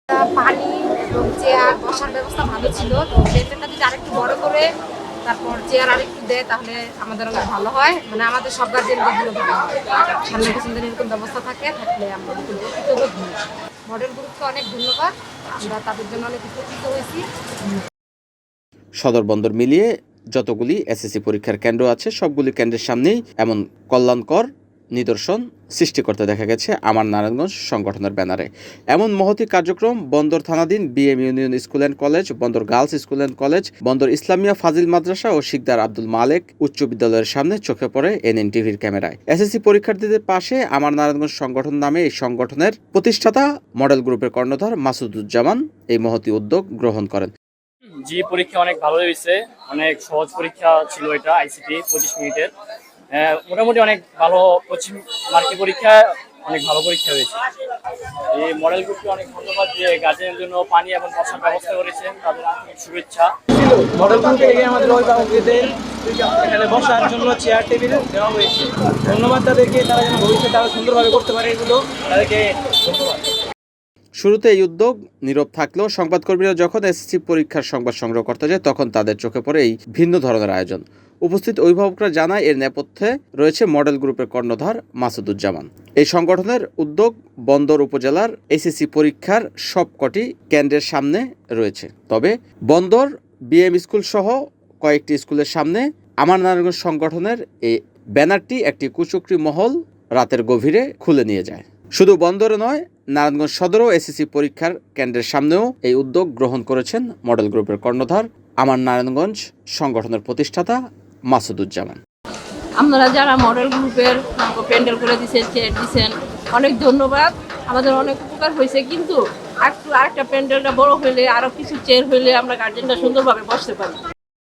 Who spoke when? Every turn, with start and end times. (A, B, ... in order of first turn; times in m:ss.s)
0:00.2-0:04.6 A
0:05.3-0:17.2 A
0:19.0-0:47.3 B
0:48.0-0:52.5 C
0:53.1-0:57.4 C
0:58.3-1:03.3 C
1:03.7-1:13.1 D
1:14.2-1:50.8 B
1:51.3-1:52.0 B
1:52.8-2:04.0 E